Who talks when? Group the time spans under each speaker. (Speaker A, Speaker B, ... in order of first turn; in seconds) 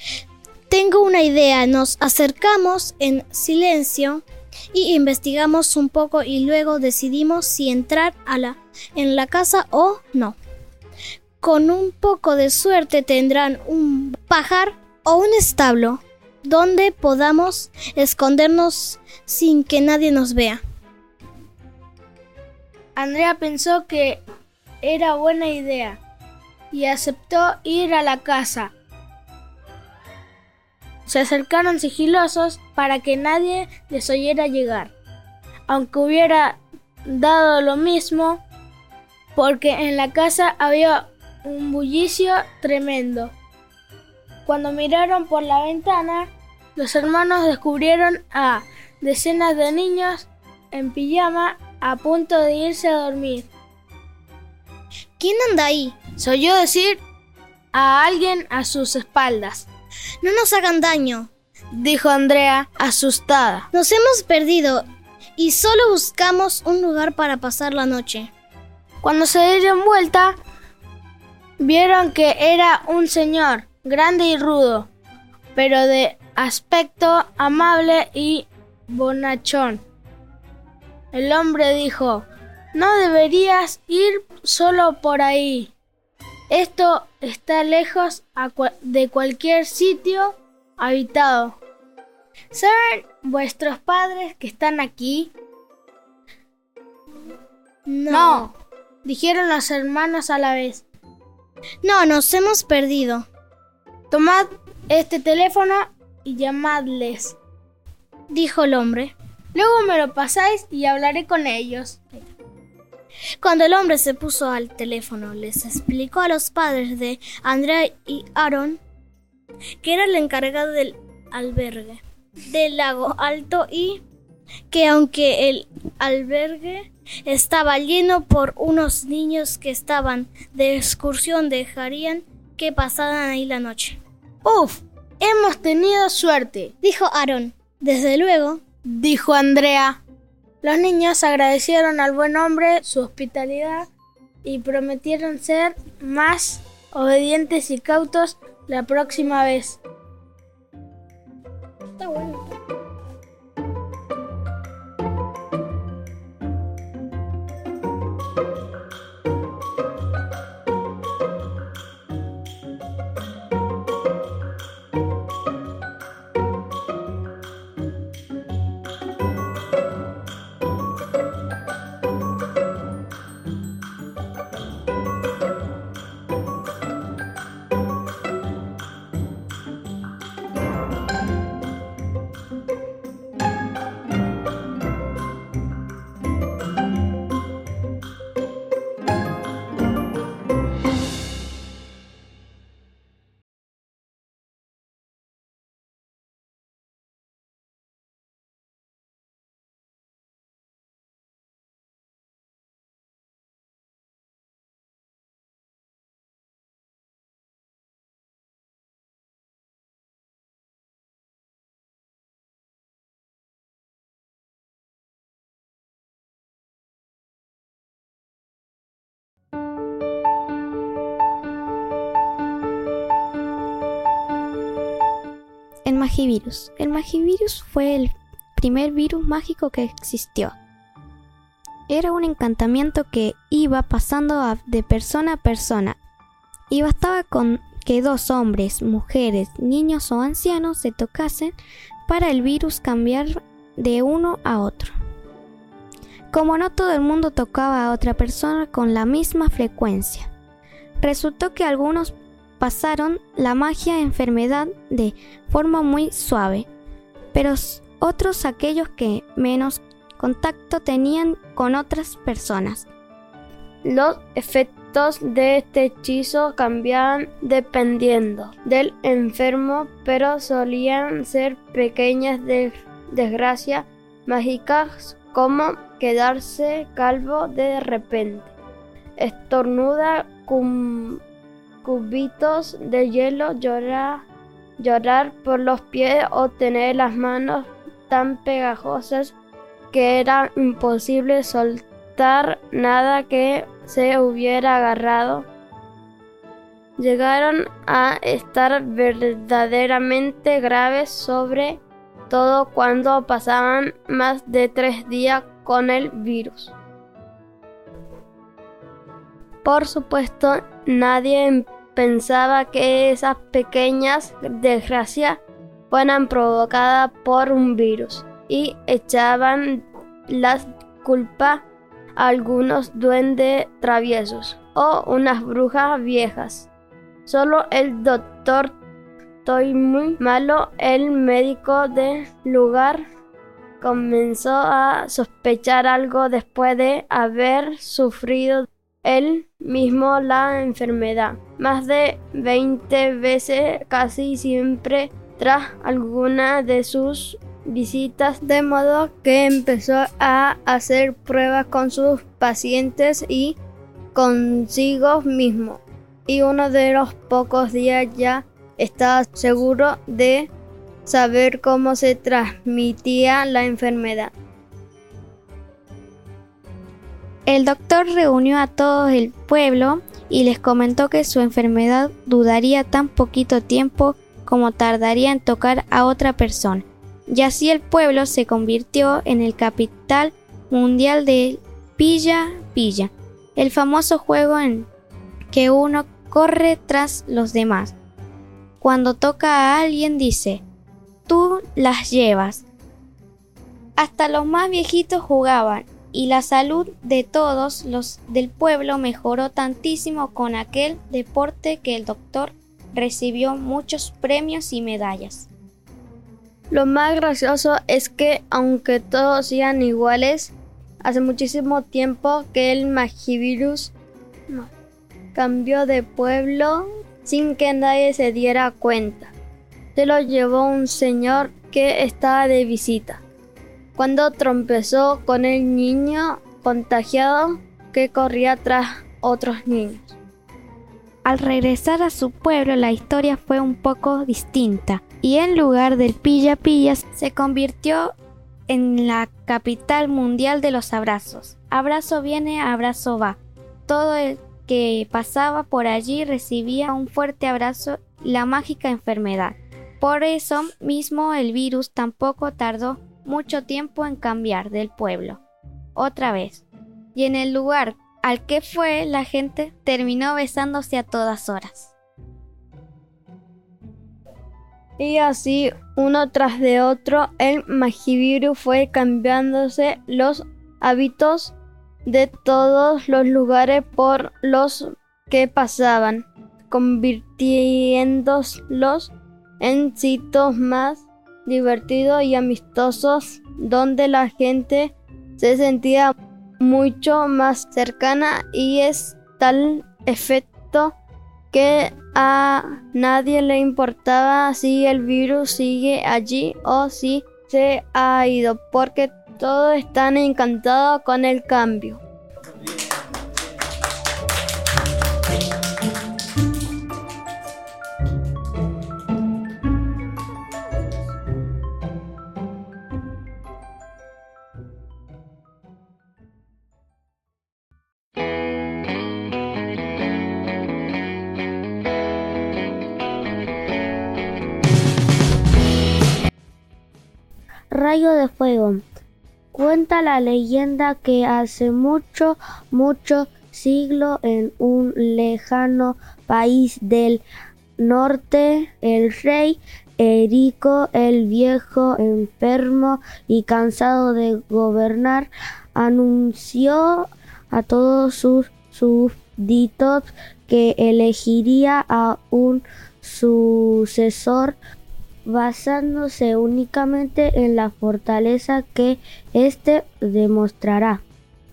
Speaker A: 0.7-10.4, 11.4-20.6, 55.2-56.0, 60.2-61.3, 63.7-64.8, 65.4-68.3, 97.8-98.5, 101.8-103.3, 108.3-109.1, 113.4-118.8, 119.8-124.0, 124.7-134.0, 136.8-138.6, 152.0-152.5
Speaker B: 22.9-24.2, 24.8-26.0, 26.7-28.7, 31.1-34.9, 35.7-38.4, 39.4-43.3, 44.5-53.5, 56.2-57.0, 57.7-59.6, 61.7-63.7, 69.0-70.3, 71.6-74.9, 75.5-79.8, 81.1-85.7, 86.5-91.6, 92.5-95.3, 98.1-100.8, 104.1-107.4, 109.5-112.3, 134.4-136.7, 138.8-140.0, 140.6-143.9, 144.4-149.8
Speaker C: 225.8-230.6, 231.9-236.0, 236.7-241.5, 242.1-244.9, 246.3-250.3, 251.0-256.7, 257.3-262.9, 367.4-384.9, 385.5-388.0, 388.8-390.6, 391.3-392.6, 394.0-405.5, 431.2-438.1, 438.7-455.4, 455.9-461.9
Speaker D: 263.8-278.5, 279.2-281.2, 281.8-284.2, 284.8-289.3, 289.9-295.5, 297.0-306.8, 309.6-321.6, 322.2-326.7, 327.3-328.8, 329.4-333.0, 333.8-353.6, 354.1-360.5, 361.1-364.3, 406.7-413.9, 415.3-419.3, 419.9-423.2, 423.9-430.2, 465.0-471.5, 472.1-490.9, 491.5-502.0
Speaker E: 527.7-528.8, 529.5-537.2, 537.8-554.6, 555.2-561.0